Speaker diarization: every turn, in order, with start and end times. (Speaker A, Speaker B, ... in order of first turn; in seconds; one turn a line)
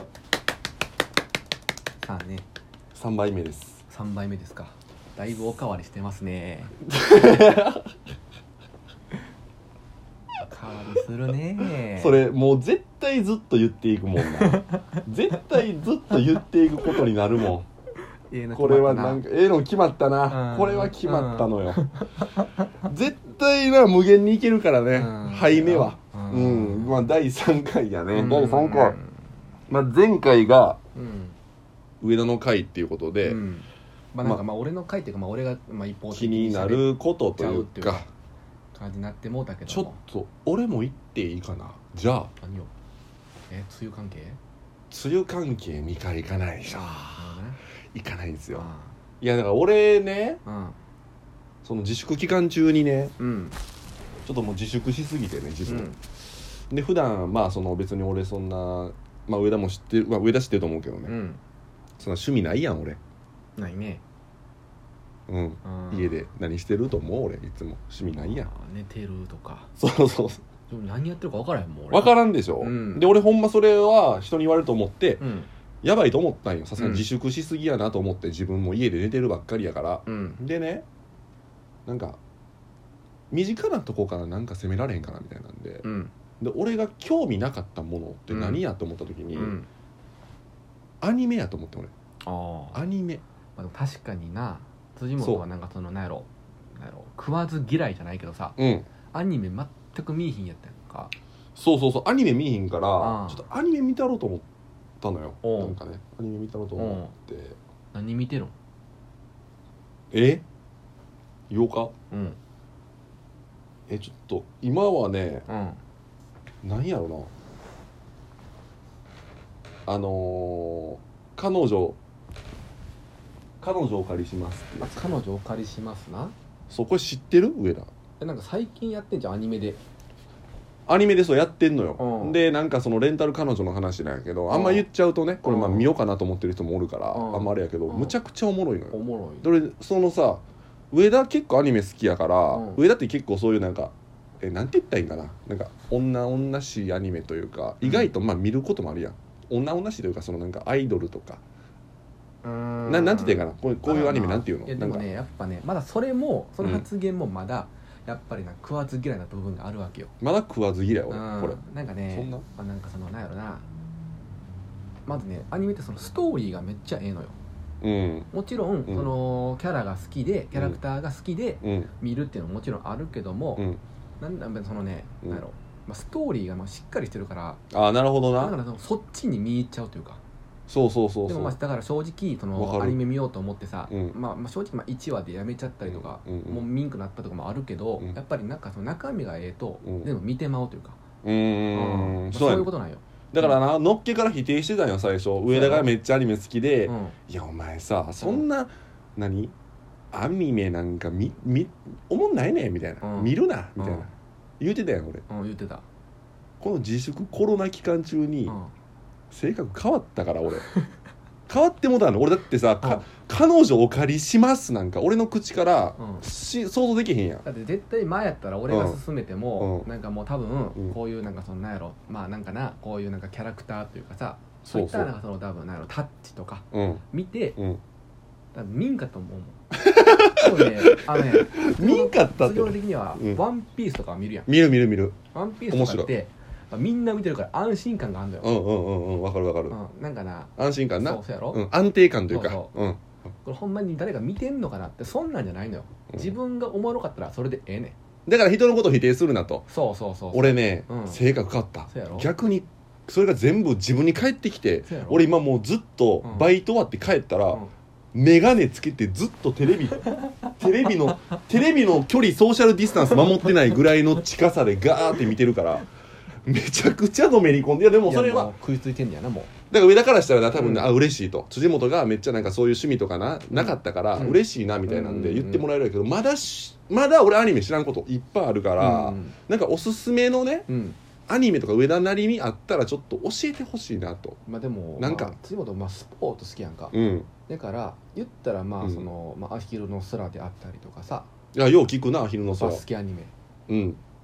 Speaker A: 2.0-2.5
Speaker B: 2.9-3.8
Speaker A: 3.9-6.7
Speaker B: 6.9-7.9
Speaker A: 10.4-12.2
Speaker B: 11.9-17.7
Speaker A: 14.2-15.0
Speaker A: 18.3-19.2
Speaker B: 18.5-21.8
Speaker A: 20.3-22.7
Speaker B: 22.8-29.0
Speaker A: 24.9-27.1
Speaker A: 28.1-29.2
Speaker B: 29.7-30.8
Speaker A: 30.9-31.4
Speaker B: 32.0-33.4
Speaker A: 33.2-38.0
Speaker B: 36.1-38.1
Speaker A: 38.7-40.0
Speaker B: 39.7-42.3
Speaker A: 42.4-42.7
Speaker A: 43.5-44.4
Speaker B: 44.9-47.4
Speaker A: 46.6-47.6
Speaker B: 47.9-48.6
Speaker A: 48.5-48.9
Speaker B: 49.2-50.4
Speaker A: 50.4-50.8
Speaker B: 51.6-53.1
Speaker A: 53.2-53.6
Speaker B: 54.2-55.9
Speaker A: 55.6-56.0
Speaker B: 56.7-61.1
Speaker A: 61.0-61.4
Speaker B: 62.0-63.0
Speaker A: 63.6-64.0
Speaker B: 65.3-68.5
Speaker A: 65.6-66.2
Speaker A: 68.1-69.7
Speaker B: 69.8-70.4
Speaker A: 70.7-73.1
Speaker B: 71.9-75.2
Speaker A: 75.2-75.5
Speaker B: 75.8-80.8
Speaker A: 76.8-77.1
Speaker A: 80.0-80.4
Speaker B: 81.8-82.2
Speaker B: 83.3-85.8
Speaker A: 85.8-86.1
Speaker B: 86.4-89.5
Speaker A: 88.3-88.6
Speaker A: 89.3-89.7
Speaker B: 91.0-91.9
Speaker A: 92.2-92.8
Speaker B: 92.7-93.2
Speaker A: 93.5-98.6
Speaker B: 95.2-95.4
Speaker B: 98.6-98.9
Speaker A: 99.1-101.1
Speaker B: 101.5-104.5
Speaker A: 103.0-103.4
Speaker B: 105.0-107.6
Speaker A: 105.4-105.8
Speaker A: 106.7-107.1
Speaker A: 107.9-108.5
Speaker B: 110.1-110.4
Speaker B: 111.5-111.9
Speaker A: 112.1-112.4
Speaker B: 113.9-115.5
Speaker A: 115.5-115.8
Speaker B: 116.6-117.3
Speaker B: 119.9-122.0
Speaker B: 123.6-125.1
Speaker A: 124.8-126.3
Speaker B: 126.7-127.9
Speaker A: 128.2-129.8
Speaker B: 130.9-151.4
Speaker A: 132.0-132.4
Speaker A: 134.5-134.9
Speaker A: 135.4-135.9
Speaker A: 137.1-138.1
Speaker A: 138.9-139.5
Speaker A: 142.5-142.8
Speaker A: 147.8-148.1
Speaker A: 152.4-160.1
Speaker B: 152.9-155.0
Speaker B: 156.6-156.8
Speaker B: 160.2-161.6
Speaker A: 161.1-163.6
Speaker B: 162.1-162.4
Speaker A: 165.1-167.3
Speaker B: 167.8-168.3
Speaker A: 168.3-173.7
Speaker B: 171.6-171.9
Speaker A: 174.2-177.6
Speaker B: 177.7-178.5
Speaker A: 178.4-180.2
Speaker B: 180.7-181.5
Speaker A: 181.3-191.0
Speaker B: 182.5-183.0
Speaker B: 183.9-184.1
Speaker B: 185.8-186.6
Speaker B: 189.8-190.1
Speaker B: 191.2-192.7
Speaker A: 191.7-193.5
Speaker B: 193.3-199.5
Speaker A: 195.5-195.9
Speaker A: 196.8-197.2
Speaker B: 200.1-204.1
Speaker A: 203.0-204.1
Speaker B: 204.6-205.2
Speaker A: 205.3-205.8
Speaker B: 206.6-208.6
Speaker A: 208.5-208.7
Speaker B: 209.3-210.7
Speaker B: 211.5-217.4
Speaker A: 216.0-216.2
Speaker A: 217.4-227.6
Speaker B: 218.7-219.0
Speaker B: 219.6-219.8
Speaker B: 224.6-225.1
Speaker B: 226.7-227.0
Speaker A: 228.5-234.5
Speaker B: 229.8-233.4
Speaker B: 234.5-235.2
Speaker A: 235.3-238.6
Speaker B: 235.7-236.1
Speaker B: 238.4-239.8
Speaker A: 239.7-241.6
Speaker B: 240.6-243.0
Speaker A: 242.3-242.7
Speaker A: 243.4-247.9
Speaker B: 248.2-249.7
Speaker A: 249.7-251.2
Speaker B: 250.3-257.6
Speaker A: 251.9-252.3
Speaker A: 254.8-255.2
Speaker A: 256.2-256.5
Speaker B: 258.1-265.9
Speaker B: 266.4-268.5
Speaker A: 268.0-269.5
Speaker B: 269.7-280.7
Speaker A: 270.5-270.9
Speaker A: 273.5-275.6
Speaker A: 278.8-279.4
Speaker A: 280.7-281.0
Speaker B: 281.3-284.4
Speaker A: 284.4-286.9
Speaker B: 285.0-285.3
Speaker B: 286.9-287.3
Speaker A: 287.5-291.3
Speaker B: 288.8-289.1
Speaker B: 291.5-292.8
Speaker A: 292.6-293.3
Speaker B: 293.7-294.0